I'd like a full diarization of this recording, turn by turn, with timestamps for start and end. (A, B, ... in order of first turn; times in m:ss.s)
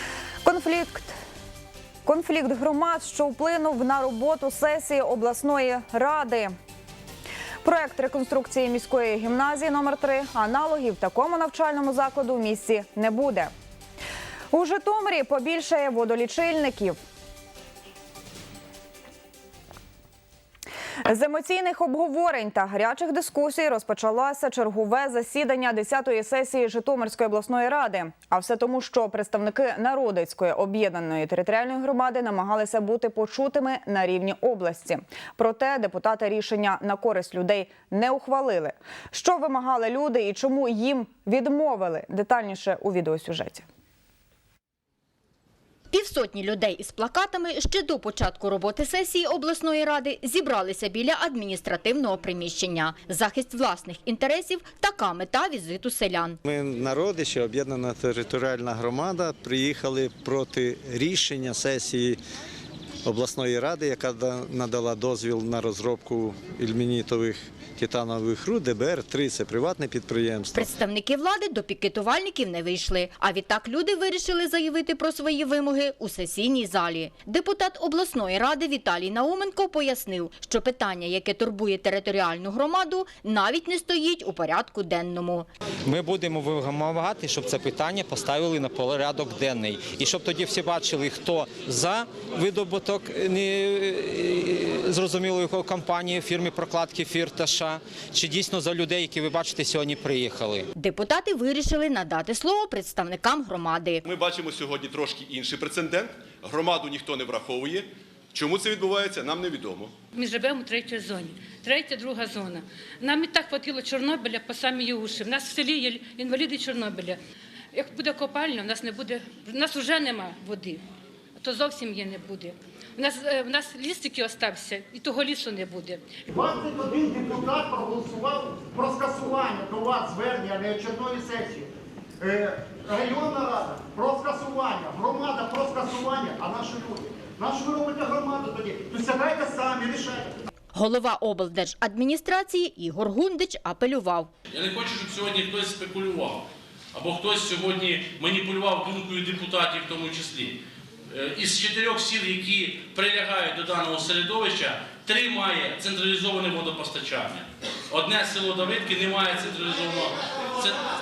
0:00.4-0:01.1 A
0:02.0-0:06.5 A
0:07.6-0:13.5 A
0:14.5-0:17.0 A
0:21.0-0:43.6 A
0:45.9-0:56.4 B
0:56.4-1:02.2 C
1:03.0-1:10.7 C
1:10.5-1:25.5 B
1:25.8-1:40.7 D
1:40.8-1:44.0 B
1:44.0-1:49.9 E
1:50.1-1:57.2 F
1:57.7-2:00.8 F
2:01.4-2:06.0 F
2:06.3-2:11.7 G
2:12.2-2:20.3 G
2:20.7-2:24.3 B
2:24.5-2:40.8 H